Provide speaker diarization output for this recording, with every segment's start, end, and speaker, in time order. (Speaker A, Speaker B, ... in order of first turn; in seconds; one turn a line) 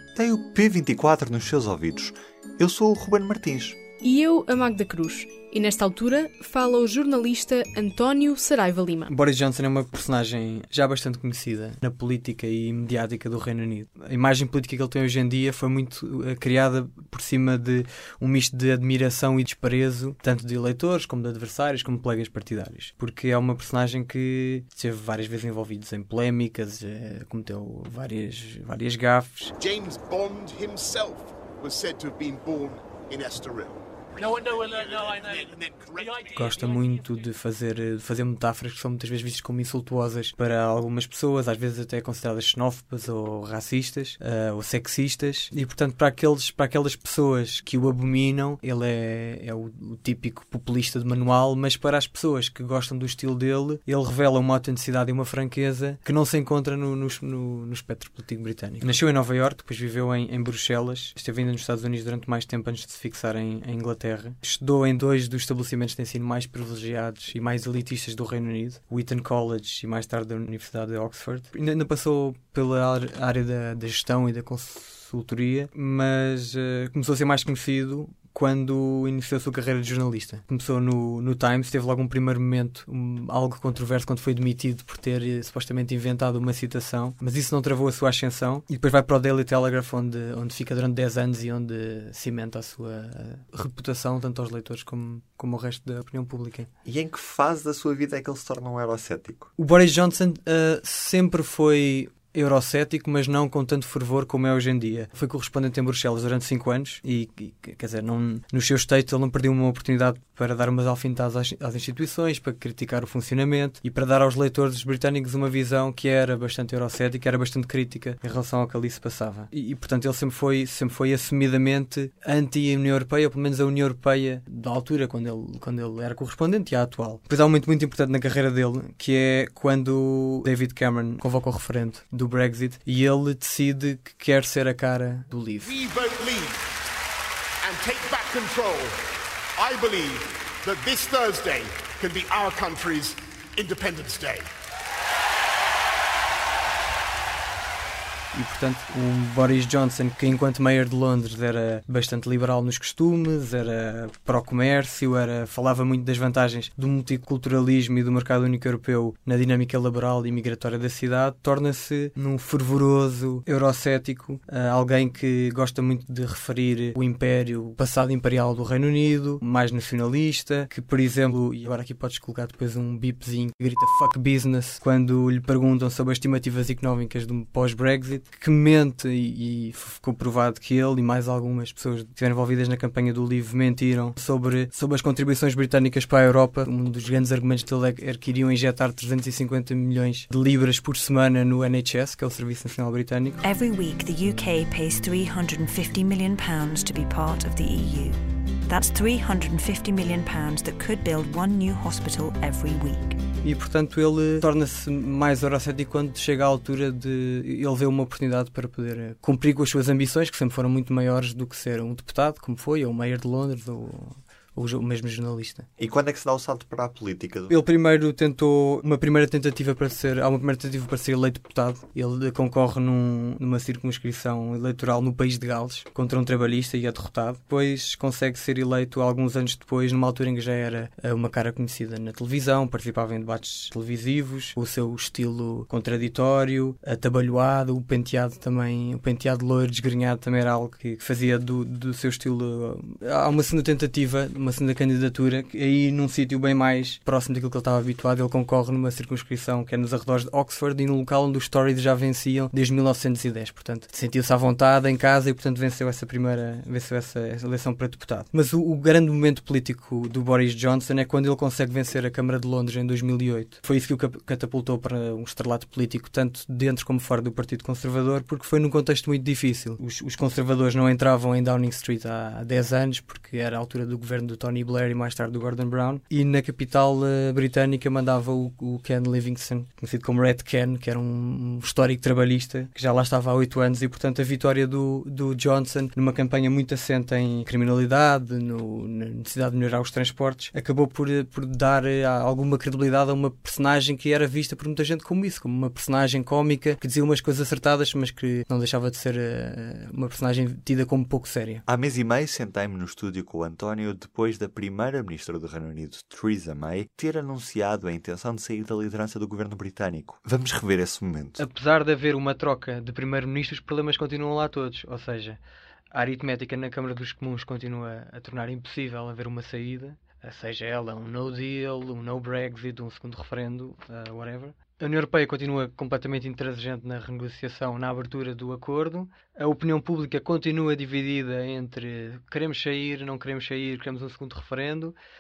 Speaker A: 0.1-3.8
Speaker B: 4.0-9.1
Speaker C: 9.1-29.5
Speaker D: 29.6-36.3
Speaker C: 36.3-96.7
Speaker A: 96.8-99.5
Speaker C: 99.6-135.7
Speaker D: 135.6-136.6
Speaker D: 137.6-138.9
Speaker D: 139.6-144.4
Speaker C: 148.3-193.4
Speaker E: 193.4-203.2
Speaker C: 203.4-215.7
Speaker A: 215.8-217.6
Speaker C: 217.5-301.6
Speaker A: 301.7-311.4
Speaker C: 311.4-315.4
Speaker C: 315.9-334.9